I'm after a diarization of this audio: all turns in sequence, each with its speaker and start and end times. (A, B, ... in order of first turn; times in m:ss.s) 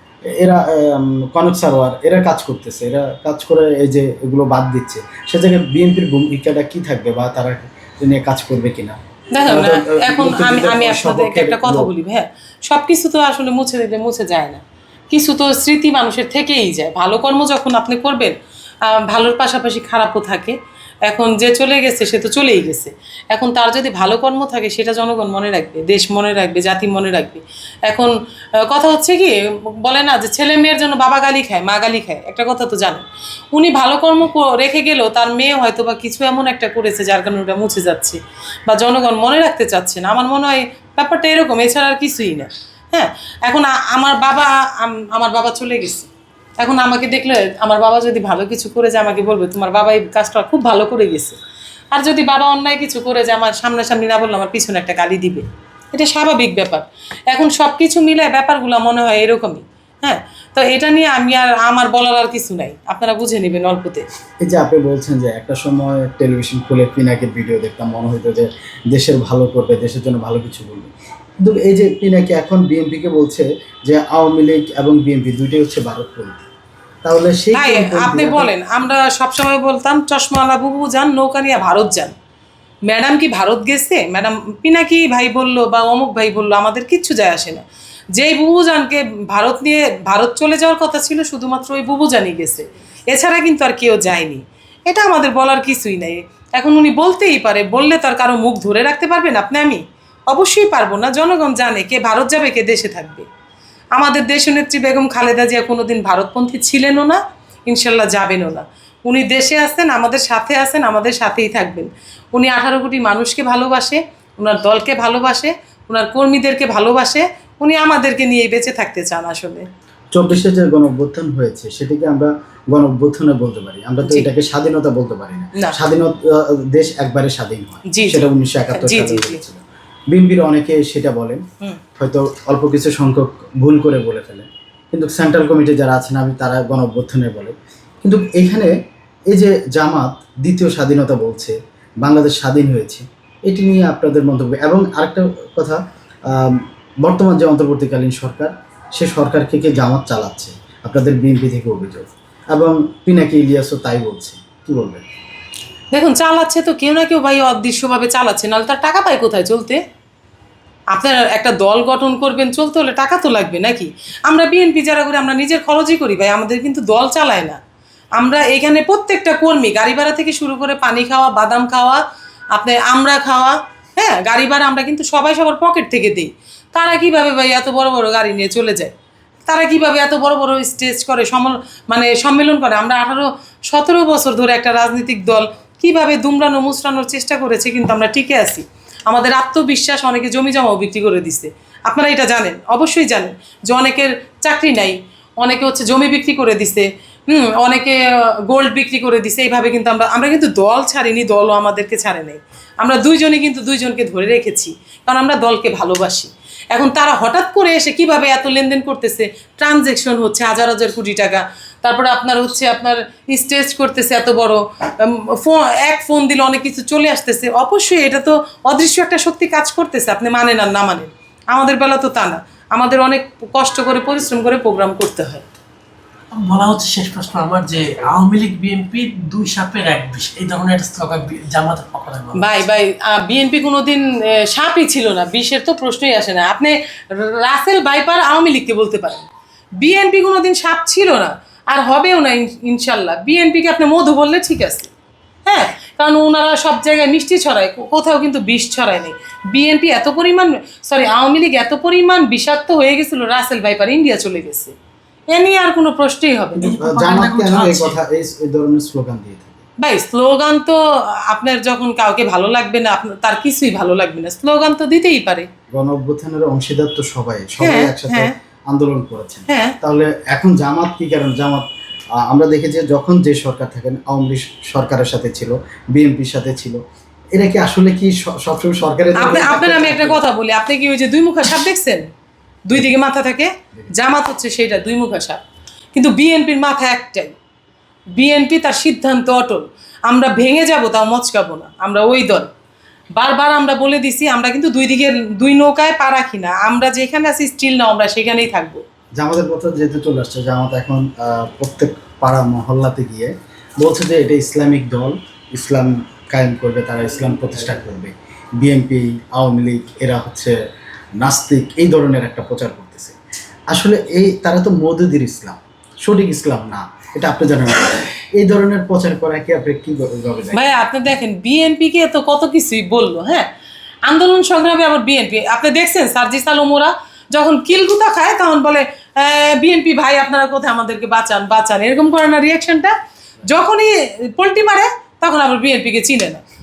0:00.3-0:11.9 A
0:09.3-0:51.4 B
0:51.9-1:04.0 B
1:04.4-1:10.9 A
1:11.4-1:16.4 A
1:17.0-1:18.5 A
1:17.5-1:22.1 B
1:22.9-1:27.6 B
1:28.1-1:43.3 B
1:44.0-1:59.7 B
2:00.1-2:11.4 A
2:07.9-2:09.4 B
2:12.0-2:18.7 A
2:19.3-2:35.0 A
2:35.9-2:39.8 B
2:40.9-2:47.6 B
2:48.2-2:52.0 B
2:52.5-2:58.9 B
2:59.5-3:45.5 B
3:46.3-3:52.6 C
3:52.4-3:59.3 B
3:59.8-4:04.9 B
4:05.5-4:14.7 B
4:15.3-4:16.7 B
4:16.6-4:18.0 C
4:16.7-4:19.6 A
4:19.8-4:25.5 B
4:25.7-4:31.6 A
4:27.6-4:28.3 B
4:29.5-4:29.8 B
4:32.2-4:36.8 A
4:37.3-4:40.2 A
4:39.2-4:42.0 B
4:42.7-4:45.4 B
4:46.0-4:47.4 B
4:48.2-4:52.5 B
4:53.2-4:58.8 B
4:59.2-5:10.6 A
5:11.2-5:13.2 A
5:13.7-5:20.7 A
5:20.5-5:23.5 B
5:24.1-5:36.4 B